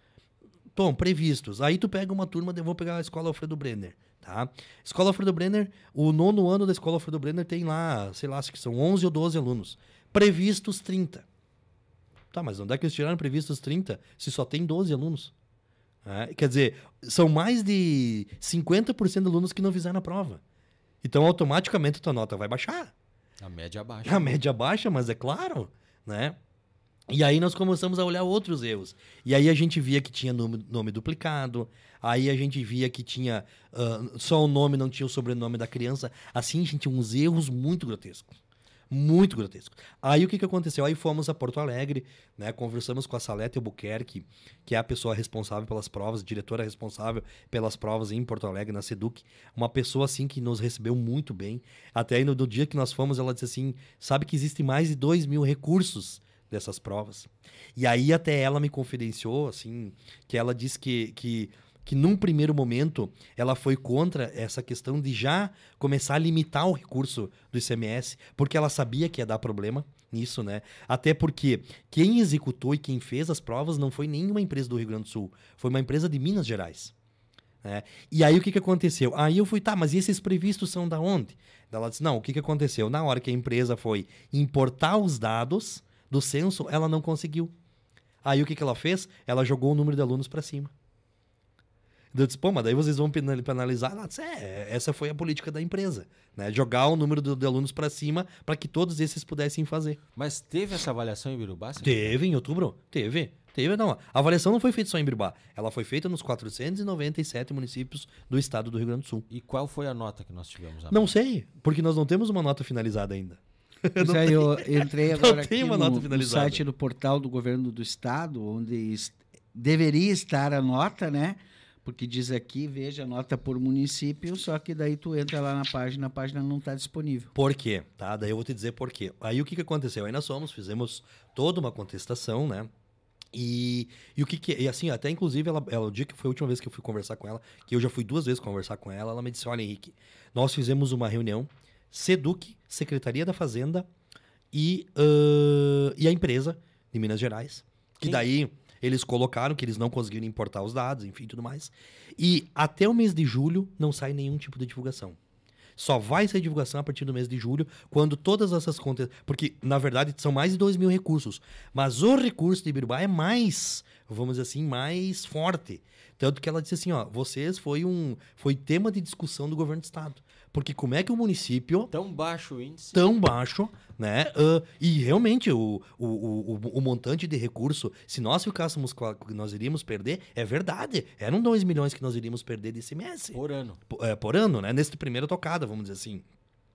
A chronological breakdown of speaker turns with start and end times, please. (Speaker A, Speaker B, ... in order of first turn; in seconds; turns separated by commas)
Speaker A: 0.8-11.2, Speaker A: 12.3-15.3, Speaker A: 16.1-20.4, Speaker A: 21.0-22.9, Speaker B: 23.4-24.4, Speaker A: 24.1-26.4, Speaker A: 27.1-38.4, Speaker A: 38.9-76.9, Speaker A: 77.6-87.5, Speaker A: 88.2-90.7, Speaker A: 92.1-100.0, Speaker B: 100.2-102.2, Speaker A: 101.8-109.3, Speaker B: 109.3-111.1, Speaker A: 110.9-116.6, Speaker C: 114.0-127.3, Speaker A: 127.3-132.7, Speaker A: 133.3-143.9, Speaker A: 144.5-155.2, Speaker A: 155.8-171.9, Speaker B: 171.9-173.0, Speaker A: 172.9-186.2, Speaker B: 183.3-183.8